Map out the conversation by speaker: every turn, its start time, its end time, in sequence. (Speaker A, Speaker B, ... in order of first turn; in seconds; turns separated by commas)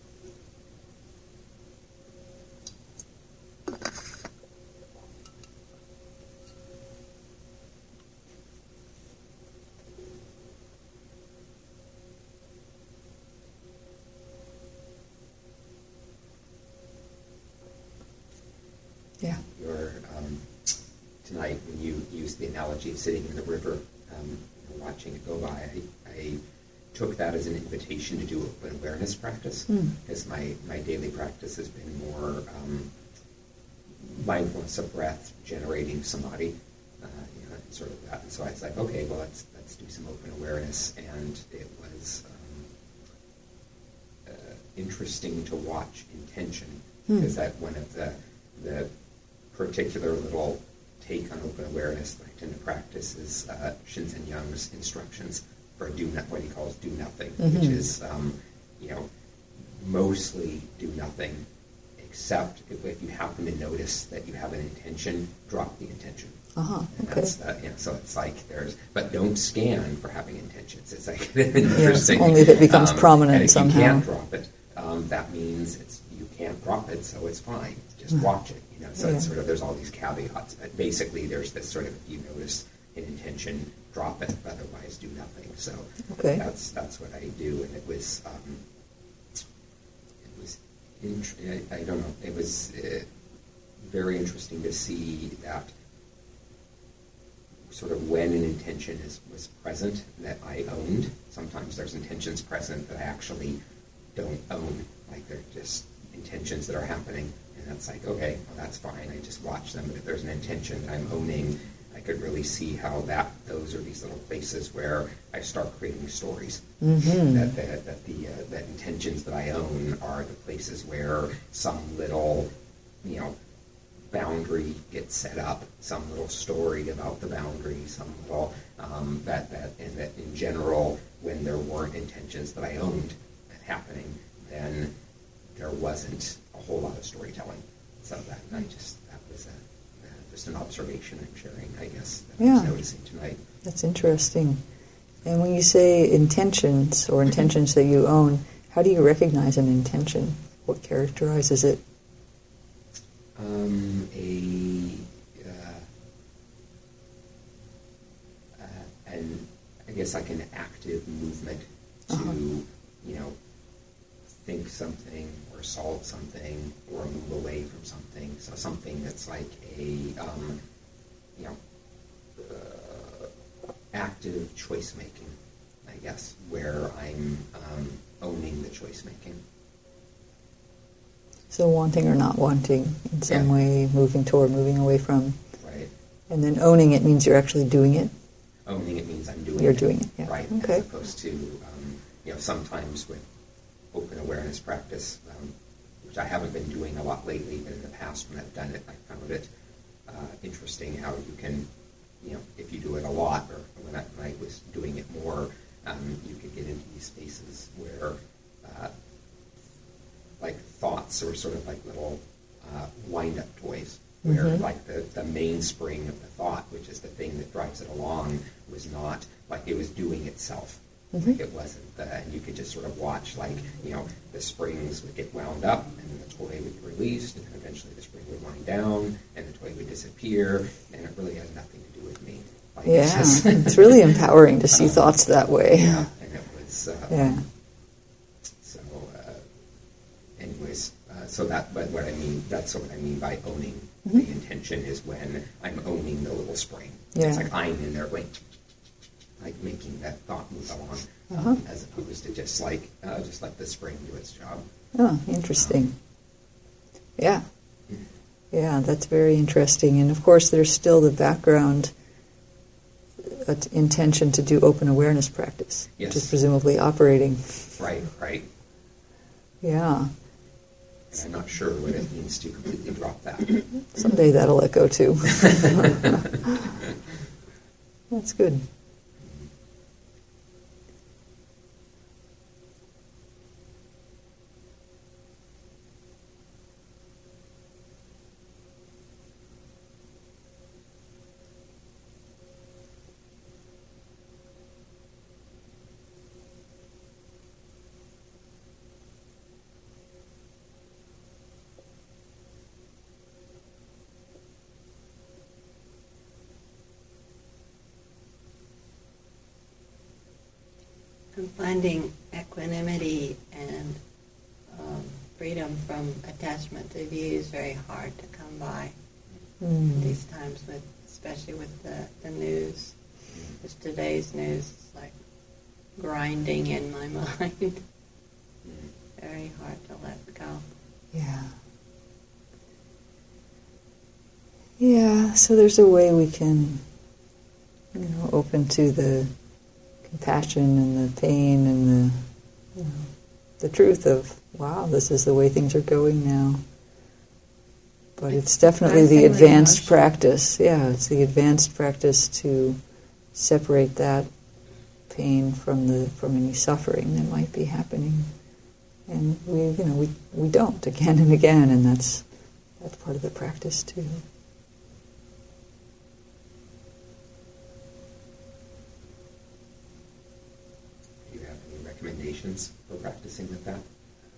Speaker A: 19.5-26.4, Speaker A: 26.9-32.9, Speaker B: 29.7-29.9, Speaker A: 34.0-42.7, Speaker A: 44.2-48.9, Speaker A: 49.5-61.5, Speaker B: 57.4-57.8, Speaker A: 62.0-66.4, Speaker B: 66.5-67.3, Speaker A: 66.9-88.6, Speaker B: 71.7-74.0, Speaker B: 79.0-79.3, Speaker B: 86.1-86.4, Speaker A: 90.2-93.1, Speaker A: 93.8-95.7, Speaker A: 97.7-103.6, Speaker A: 104.1-116.6, Speaker B: 116.8-117.5, Speaker A: 117.2-122.5, Speaker A: 123.0-123.3, Speaker A: 124.1-134.9, Speaker A: 135.5-143.4, Speaker B: 142.4-142.7, Speaker B: 143.6-144.6, Speaker B: 145.2-151.8, Speaker A: 153.3-155.8, Speaker A: 158.6-163.3, Speaker B: 162.1-162.4, Speaker A: 164.4-170.6, Speaker A: 172.3-173.3, Speaker A: 173.9-179.4, Speaker B: 181.5-185.4, Speaker A: 185.6-185.9, Speaker B: 186.3-188.1, Speaker A: 188.7-193.3, Speaker B: 189.6-190.8, Speaker A: 193.9-199.5, Speaker A: 200.1-201.7, Speaker A: 202.2-208.9, Speaker A: 210.4-234.2, Speaker B: 214.2-214.6, Speaker B: 232.8-236.1, Speaker A: 234.7-237.5, Speaker B: 237.1-237.4, Speaker A: 238.6-239.5, Speaker A: 240.4-248.4, Speaker B: 247.1-247.5, Speaker A: 249.4-254.6, Speaker B: 251.3-251.6, Speaker B: 254.9-255.9, Speaker B: 257.2-257.4, Speaker B: 258.5-261.9, Speaker B: 263.2-267.7, Speaker A: 266.0-266.3, Speaker A: 267.7-268.5, Speaker B: 269.6-270.1, Speaker A: 271.1-273.7, Speaker B: 273.9-276.2, Speaker A: 275.4-276.2, Speaker B: 278.1-278.6, Speaker A: 279.2-279.5, Speaker C: 311.3-314.0, Speaker C: 314.7-318.9, Speaker B: 319.6-320.1, Speaker C: 319.9-322.9, Speaker A: 323.3-323.6, Speaker C: 323.6-325.1, Speaker C: 325.9-327.8, Speaker A: 328.6-328.9, Speaker C: 329.2-330.6, Speaker B: 331.1-331.5, Speaker B: 334.8-336.8, Speaker B: 337.9-339.3, Speaker B: 340.0-346.6, Speaker B: 348.2-352.8, Speaker C: 348.6-350.0, Speaker B: 353.3-354.3, Speaker B: 355.1-358.3, Speaker B: 359.1-362.3, Speaker B: 362.8-364.2, Speaker A: 371.2-373.8